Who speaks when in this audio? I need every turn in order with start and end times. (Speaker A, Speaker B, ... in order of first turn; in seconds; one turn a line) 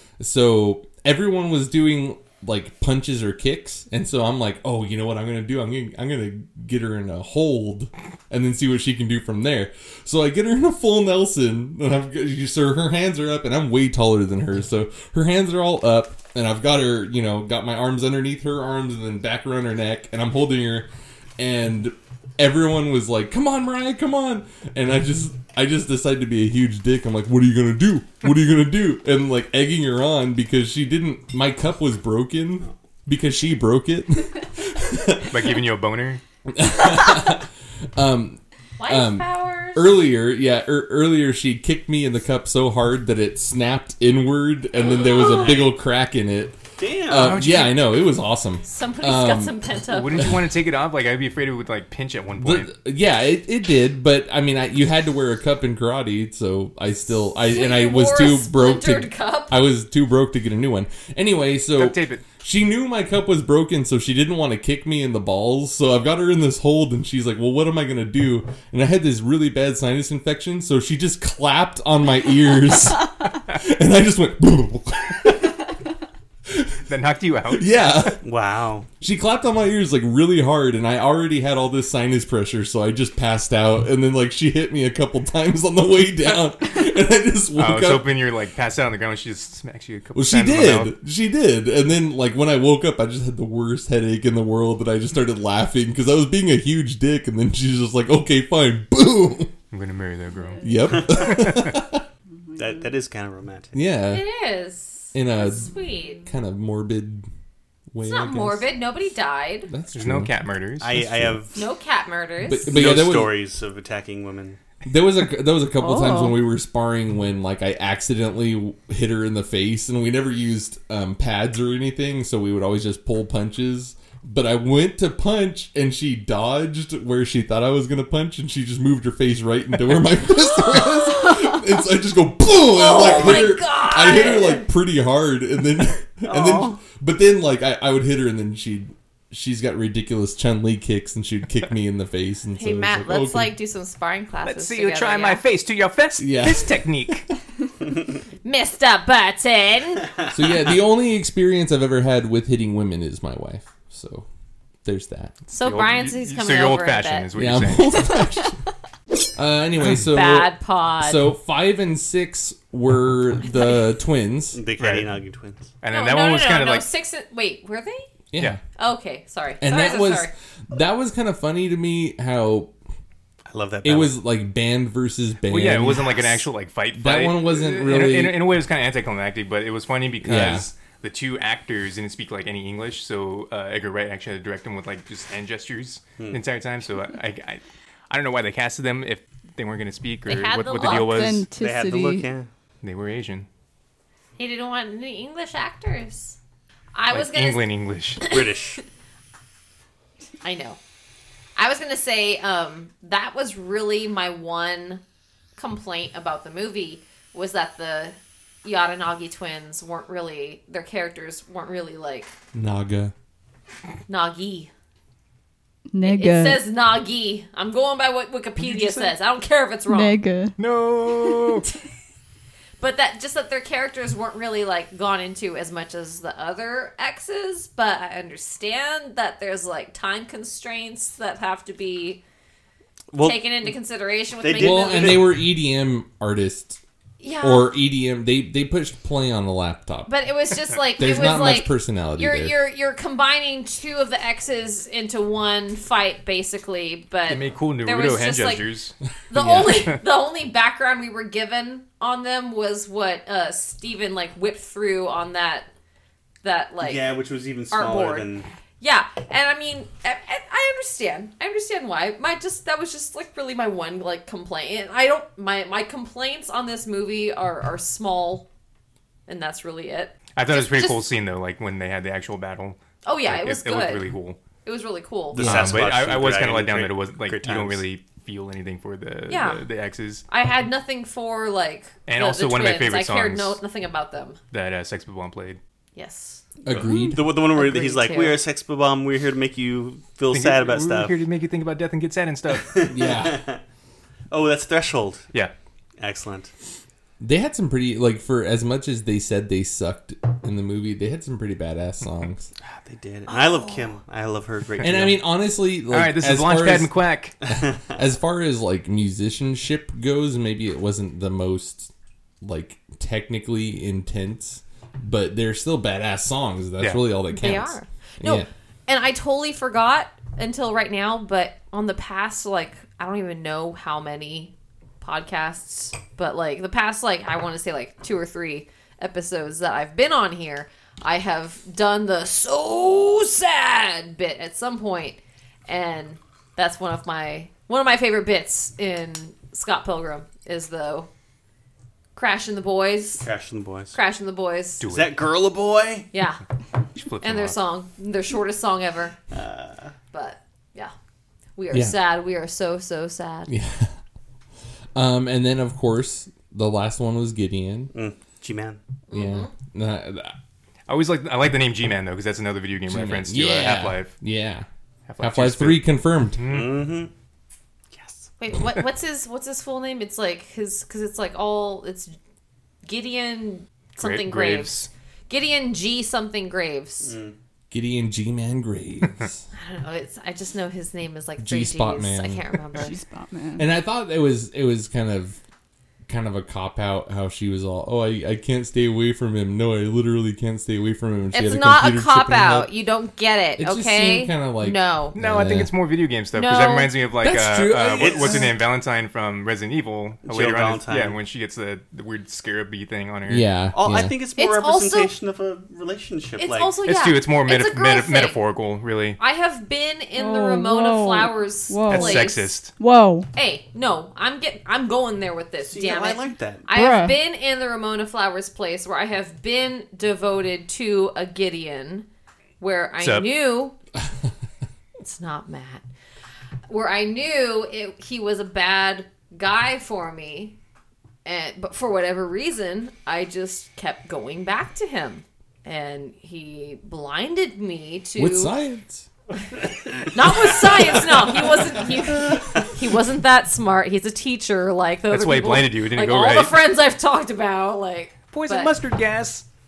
Speaker A: 0.2-35.5
Speaker B: 35.3-36.2
Speaker A: 36.5-49.6
Speaker C: 38.8-40.0
Speaker D: 46.8-47.5
Speaker B: 47.1-47.8
Speaker C: 48.6-50.3
Speaker B: 49.9-52.7
Speaker A: 52.4-75.5
Speaker C: 57.4-59.6
Speaker B: 61.7-62.2
Speaker A: 76.5-76.8
Speaker B: 76.9-77.7
Speaker A: 77.5-78.2
Speaker D: 78.2-78.9
Speaker A: 79.0-88.1
Speaker B: 87.5-90.9
Speaker A: 90.1-99.5
Speaker B: 99.7-101.8
Speaker A: 100.6-102.0
Speaker D: 102.6-103.8
Speaker A: 103.7-104.2
Speaker C: 104.1-106.2
Speaker A: 105.1-105.7
Speaker A: 106.2-107.3
Speaker A: 107.9-108.7
Speaker C: 108.0-109.7
Speaker A: 109.7-110.3
Speaker B: 109.9-111.0
Speaker D: 110.8-111.6
Speaker A: 110.9-111.4
Speaker C: 111.5-112.8
Speaker A: 112.4-113.3
Speaker D: 112.7-114.6
Speaker A: 114.8-143.5
Speaker E: 115.8-116.4
Speaker C: 132.6-134.7
Speaker D: 136.2-136.8
Speaker C: 142.5-145.4
Speaker B: 144.4-147.3
Speaker A: 146.2-146.9
Speaker C: 148.4-150.1
Speaker A: 150.3-154.2
Speaker A: 154.8-155.3
Speaker C: 155.5-157.2
Speaker B: 155.6-158.0
Speaker A: 157.3-158.6
Speaker A: 159.3-164.6
Speaker C: 159.9-161.3
Speaker C: 163.4-163.8
Speaker D: 164.5-165.7
Speaker B: 164.8-165.1
Speaker B: 165.8-166.8
Speaker C: 165.9-168.1
Speaker A: 168.3-168.6
Speaker C: 168.8-170.3
Speaker A: 169.6-172.7
Speaker D: 173.5-174.2
Speaker A: 173.8-176.4
Speaker B: 175.5-191.4
Speaker A: 176.9-178.4
Speaker A: 180.2-180.7
Speaker C: 190.2-191.4
Speaker E: 190.8-192.3
Speaker D: 191.5-192.5
Speaker B: 192.8-193.5
Speaker C: 194.4-196.3
Speaker C: 196.9-197.7
Speaker B: 197.1-198.2
Speaker C: 198.2-198.5
Speaker D: 198.2-198.8
Speaker C: 200.4-200.8
Speaker C: 201.6-205.0
Speaker C: 205.6-212.3
Speaker A: 212.5-213.1
Speaker C: 214.1-214.7
Speaker E: 215.9-216.6
Speaker C: 216.0-220.2
Speaker B: 218.7-219.1
Speaker E: 219.9-220.6
Speaker B: 220.6-221.7
Speaker C: 222.8-232.2
Speaker D: 233.1-233.7
Speaker C: 233.2-235.2
Speaker D: 234.4-235.4
Speaker A: 234.6-236.8
Speaker C: 237.2-237.7
Speaker A: 237.4-240.1
Speaker C: 240.1-248.6
Speaker A: 240.9-242.6
Speaker B: 247.3-250.0
Speaker C: 249.3-255.7
Speaker C: 256.4-257.1
Speaker D: 256.8-258.5
Speaker C: 257.7-258.3
Speaker C: 258.8-268.4
Speaker C: 269.3-271.1
Speaker B: 270.3-274.4
Speaker C: 273.0-274.1
Speaker C: 274.6-275.6
Speaker D: 275.3-277.8
Speaker B: 275.4-280.2
Speaker A: 275.5-275.8
Speaker C: 279.3-279.6
Speaker C: 280.3-284.4
Speaker B: 282.1-283.6
Speaker B: 284.5-285.6
Speaker C: 285.9-286.4
Speaker A: 286.6-287.2
Speaker D: 287.0-291.2
Speaker C: 287.4-288.4
Speaker B: 290.3-292.8
Speaker D: 292.5-293.6
Speaker A: 292.9-293.4
Speaker D: 294.3-295.2
Speaker D: 296.0-296.5
Speaker A: 297.2-302.5
Speaker D: 302.6-305.2
Speaker C: 303.3-303.7
Speaker A: 304.8-306.9
Speaker B: 305.9-307.3
Speaker D: 307.4-307.8
Speaker A: 307.4-311.9
Speaker A: 312.4-318.5
Speaker C: 317.3-341.1
Speaker C: 342.1-343.3
Speaker D: 343.2-344.0
Speaker C: 343.9-344.9
Speaker B: 344.8-345.1
Speaker D: 344.8-346.1
Speaker C: 346.1-346.4
Speaker B: 346.9-347.6
Speaker C: 347.2-349.1
Speaker D: 349.3-349.9
Speaker C: 350.1-350.9
Speaker C: 351.6-353.5
Speaker A: 351.7-352.0
Speaker A: 353.5-353.9
Speaker A: 354.9-357.9
Speaker D: 357.9-358.8
Speaker C: 359.1-359.5
Speaker A: 359.1-360.3
Speaker B: 360.9-364.1
Speaker A: 362.9-364.7
Speaker B: 365.1-365.8
Speaker A: 365.2-366.4
Speaker B: 366.4-366.9
Speaker D: 366.4-367.1
Speaker D: 367.9-368.3
Speaker C: 368.4-372.1
Speaker C: 372.8-377.1
Speaker B: 374.0-374.9
Speaker D: 377.0-377.3
Speaker A: 377.7-379.4
Speaker C: 379.5-382.9
Speaker A: 381.4-382.4
Speaker E: 382.7-383.6
Speaker A: 383.6-385.4
Speaker A: 386.1-392.7
Speaker C: 391.3-395.1
Speaker A: 393.6-395.7
Speaker B: 395.1-403.5
Speaker C: 396.3-396.9
Speaker A: 397.2-398.5
Speaker D: 398.0-398.6
Speaker D: 400.2-401.2
Speaker A: 403.3-404.1
Speaker D: 403.7-406.7
Speaker C: 404.4-405.1
Speaker C: 406.4-408.4
Speaker B: 406.8-409.2
Speaker C: 409.2-412.5
Speaker E: 410.1-413.3
Speaker B: 411.9-412.7
Speaker C: 413.3-422.1
Speaker D: 415.6-416.7
Speaker E: 416.7-417.2
Speaker C: 422.6-423.7
Speaker B: 423.0-423.3
Speaker C: 425.0-425.8
Speaker C: 426.7-430.5
Speaker C: 431.2-438.5
Speaker A: 438.1-439.1
Speaker C: 440.1-448.7
Speaker B: 445.1-446.6
Speaker B: 448.3-449.4